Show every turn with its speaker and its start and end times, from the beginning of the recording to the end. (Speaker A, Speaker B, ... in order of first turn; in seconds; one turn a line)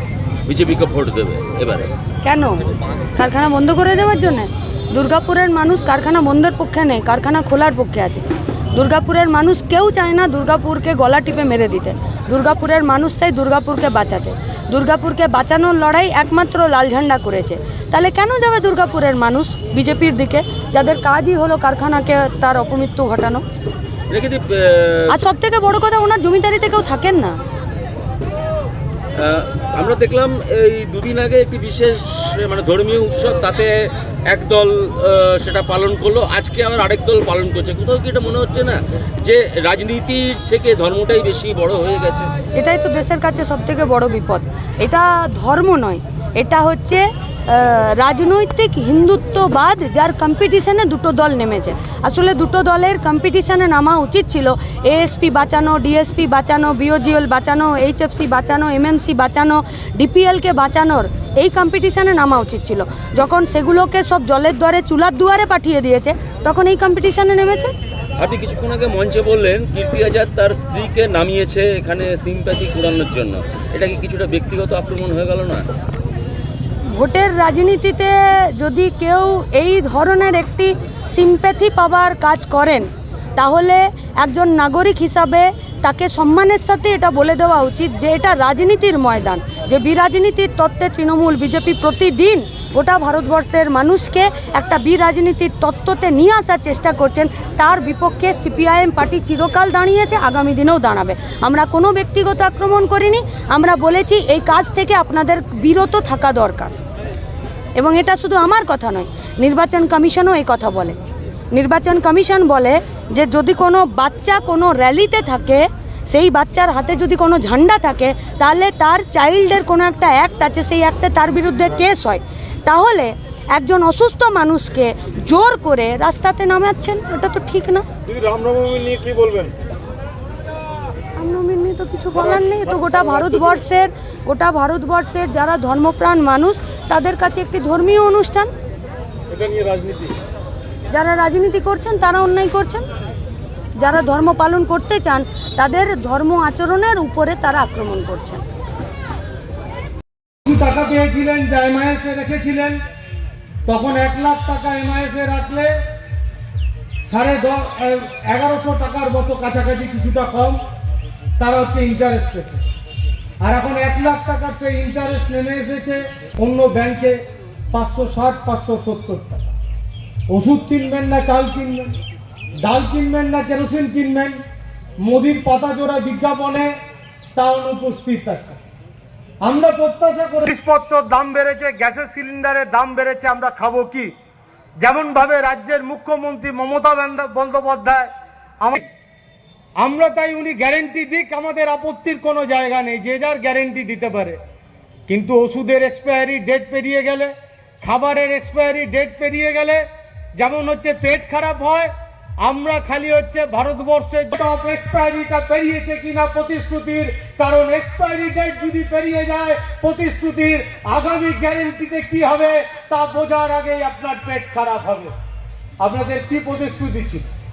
Speaker A: 0.5-1.9
Speaker B: 2.2-23.4
Speaker A: 24.1-25.1
Speaker B: 25.1-27.4
Speaker A: 29.2-42.3
Speaker B: 42.5-67.7
Speaker A: 68.2-75.6
Speaker B: 76.9-106.8
Speaker B: 107.7-111.0
Speaker B: 111.5-127.8
Speaker C: 128.1-129.5
Speaker B: 131.2-138.5
Speaker C: 139.3-140.2
Speaker B: 140.9-142.8
Speaker B: 143.8-148.4
Speaker D: 150.4-152.8
Speaker D: 153.7-155.7
Speaker D: 157.1-160.6
Speaker D: 161.4-162.6
Speaker D: 163.4-169.5
Speaker D: 170.3-171.9
Speaker D: 172.6-174.4
Speaker D: 175.0-176.7
Speaker D: 177.3-178.6
Speaker D: 179.4-184.1
Speaker D: 184.8-188.9
Speaker D: 189.8-194.4
Speaker D: 195.1-199.8
Speaker D: 200.3-201.9
Speaker D: 202.4-215.1
Speaker D: 215.8-217.3